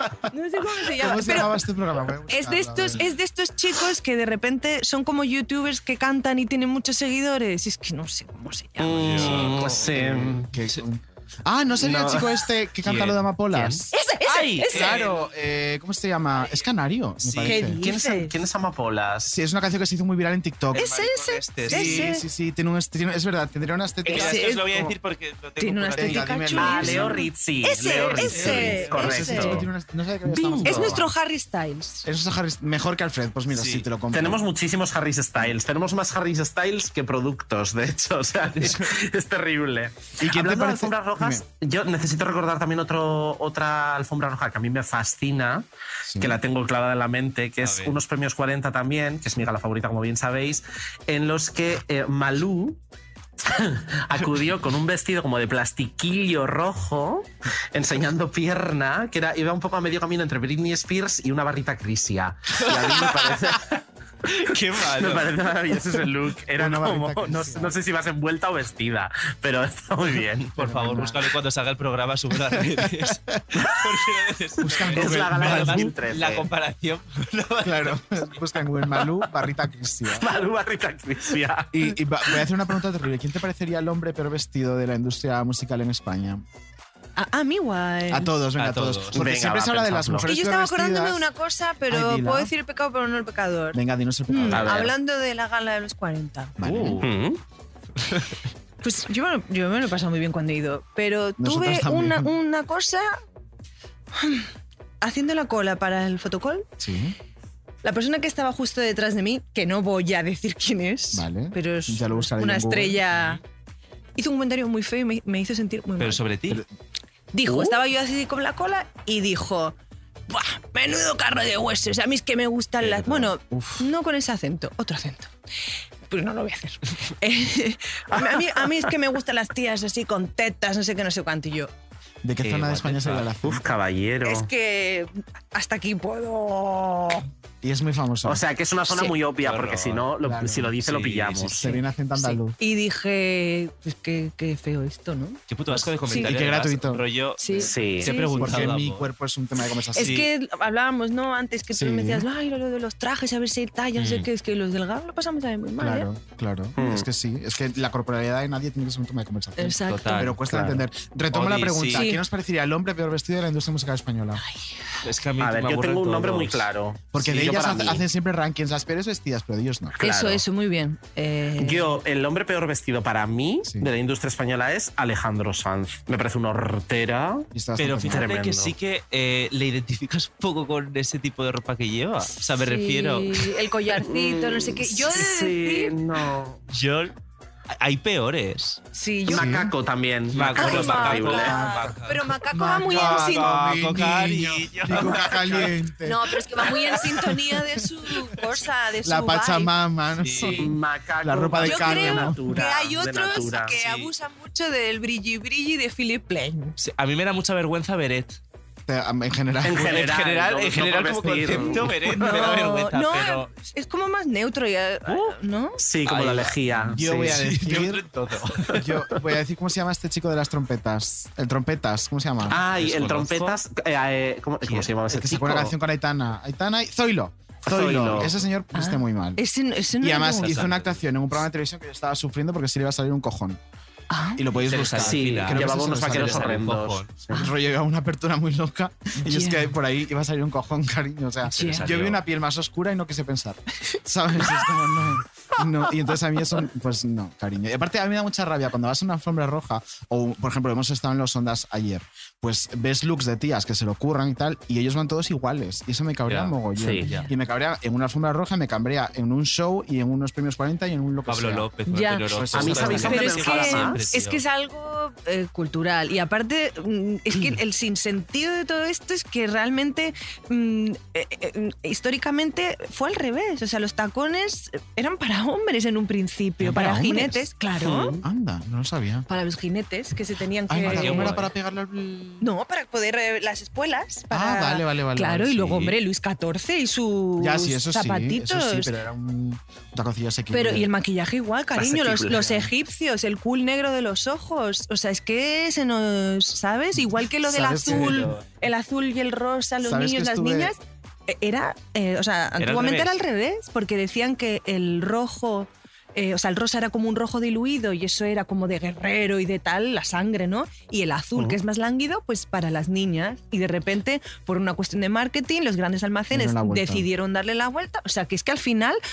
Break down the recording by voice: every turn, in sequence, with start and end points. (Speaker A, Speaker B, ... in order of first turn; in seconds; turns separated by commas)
Speaker A: 0.3-1.6, Speaker B: 1.0-3.0, Speaker A: 2.3-9.8, Speaker C: 8.8-10.5, Speaker D: 9.0-9.6, Speaker B: 9.7-13.9, Speaker C: 11.8-12.3, Speaker D: 12.8-13.2, Speaker C: 13.5-13.8, Speaker A: 13.9-15.0, Speaker D: 14.2-15.3, Speaker B: 14.7-17.8, Speaker D: 17.2-17.6, Speaker A: 17.4-18.3, Speaker C: 17.8-19.3, Speaker B: 19.2-20.8, Speaker D: 20.7-22.1, Speaker A: 20.7-22.2, Speaker B: 21.6-24.9, Speaker D: 24.1-26.9, Speaker A: 24.1-24.7, Speaker A: 25.6-29.6, Speaker B: 25.9-27.2, Speaker C: 26.6-29.6, Speaker D: 28.2-29.3, Speaker B: 28.4-31.1, Speaker A: 30.3-32.0, Speaker C: 30.5-30.9, Speaker B: 32.0-34.4, Speaker D: 33.5-33.9, Speaker C: 34.1-45.6, Speaker D: 38.5-38.9, Speaker B: 40.2-41.4, Speaker B: 46.0-46.3, Speaker C: 46.2-52.8, Speaker D: 47.6-48.0, Speaker C: 53.4-63.8, Speaker D: 62.6-63.4, Speaker D: 64.3-65.7, Speaker C: 64.9-70.6, Speaker B: 66.5-67.8, Speaker B: 70.6-71.3, Speaker D: 70.6-79.1, Speaker B: 72.5-73.3, Speaker B: 74.6-76.2, Speaker C: 74.9-76.5, Speaker B: 77.6-80.3, Speaker C: 80.2-81.8, Speaker B: 81.7-86.4, Speaker A: 87.2-88.3, Speaker B: 88.1-91.2, Speaker D: 88.6-89.3, Speaker C: 89.1-90.3, Speaker A: 90.2-96.6, Speaker B: 91.9-92.5, Speaker B: 93.7-94.8, Speaker D: 94.4-94.6, Speaker C: 94.5-94.9, Speaker B: 96.6-97.0, Speaker D: 96.6-97.0, Speaker C: 97.0-97.4, Speaker D: 98.0-98.4, Speaker A: 98.8-103.2, Speaker B: 101.4-102.3, Speaker A: 104.1-104.5, Speaker A: 105.0-106.7, Speaker B: 106.8-107.1, Speaker A: 107.8-113.4, Speaker B: 111.1-113.0, Speaker D: 113.1-113.4, Speaker A: 114.2-116.2, Speaker D: 116.0-116.6, Speaker A: 117.3-119.7, Speaker C: 117.4-117.8, Speaker A: 120.3-125.3, Speaker D: 122.8-123.3, Speaker B: 123.5-123.8, Speaker A: 126.1-131.7, Speaker C: 128.1-128.5, Speaker B: 132.2-133.7, Speaker D: 132.4-133.3, Speaker C: 133.4-134.5, Speaker A: 134.2-137.2, Speaker B: 137.6-138.4, Speaker C: 138.2-141.7, Speaker D: 139.4-140.1, Speaker B: 140.2-140.8, Speaker D: 140.8-141.6, Speaker B: 141.6-142.6, Speaker A: 141.6-145.4, Speaker D: 145.5-149.1, Speaker B: 145.7-147.7, Speaker A: 146.1-146.3, Speaker A: 147.4-148.6, Speaker C: 147.6-148.1, Speaker B: 148.3-150.2, Speaker A: 149.9-156.1, Speaker D: 150.0-150.3, Speaker B: 151.7-152.3, Speaker D: 154.0-154.3, Speaker B: 155.8-164.4, Speaker C: 156.8-157.1, Speaker A: 159.6-160.3, Speaker D: 159.9-160.8, Speaker D: 161.3-162.1, Speaker A: 161.9-162.2, Speaker D: 165.0-166.6, Speaker C: 165.4-168.0, Speaker B: 167.1-169.9, Speaker C: 169.9-170.4, Speaker A: 170.0-171.9, Speaker C: 171.6-177.5, Speaker B: 177.5-178.2, Speaker D: 177.8-183.6, Speaker C: 178.1-178.7, Speaker A: 182.6-186.0, Speaker C: 184.0-186.6, Speaker D: 186.7-187.1, Speaker D: 187.7-188.8, Speaker A: 188.9-189.6, Speaker C: 189.3-191.6, Speaker B: 189.3-189.7, Speaker D: 190.3-195.8, Speaker A: 190.6-193.5, Speaker B: 191.3-196.2, Speaker A: 196.0-199.8, Speaker D: 196.6-197.4, Speaker B: 199.0-202.4, Speaker D: 200.2-200.7, Speaker A: 200.3-200.6, Speaker C: 200.6-203.7, Speaker A: 201.6-206.8, Speaker D: 203.7-204.1, Speaker D: 206.8-208.4, Speaker B: 208.9-210.1, Speaker C: 209.6-212.4, Speaker D: 209.7-213.5, Speaker B: 211.5-212.0, Speaker A: 212.1-215.8, Speaker C: 215.8-217.4, Speaker D: 216.0-218.9, Speaker B: 216.9-218.0, Speaker B: 218.7-222.6, Speaker D: 222.5-223.6, Speaker C: 222.5-225.7, Speaker D: 224.6-224.9, Speaker B: 225.1-229.4, Speaker C: 227.6-228.3, Speaker A: 228.7-230.6, Speaker B: 230.0-233.6, Speaker D: 230.4-231.0, Speaker A: 234.1-234.4, Speaker B: 234.3-236.8, Speaker D: 234.5-237.1, Speaker C: 234.7-237.0, Speaker B: 237.3-261.7, Speaker A: 239.2-239.7, Speaker A: 241.5-241.8, Speaker D: 241.6-242.2, Speaker D: 256.3-257.3, Speaker C: 256.8-257.1, Speaker D: 261.3-264.4, Speaker A: 261.9-278.2, Speaker B: 262.3-263.2, Speaker C: 262.5-264.0, Speaker B: 276.6-277.5, Speaker C: 277.8-278.2, Speaker B: 278.2-279.3, Speaker A: 279.3-281.4, Speaker B: 280.7-282.4, Speaker D: 280.8-281.5, Speaker A: 282.4-288.9, Speaker B: 284.3-285.9, Speaker B: 287.4-290.9, Speaker A: 290.5-319.0, Speaker C: 291.8-292.4, Speaker B: 292.3-292.7, Speaker B: 297.4-298.4, Speaker D: 297.7-298.4, Speaker B: 299.8-300.7, Speaker D: 302.6-303.1, Speaker B: 316.3-317.1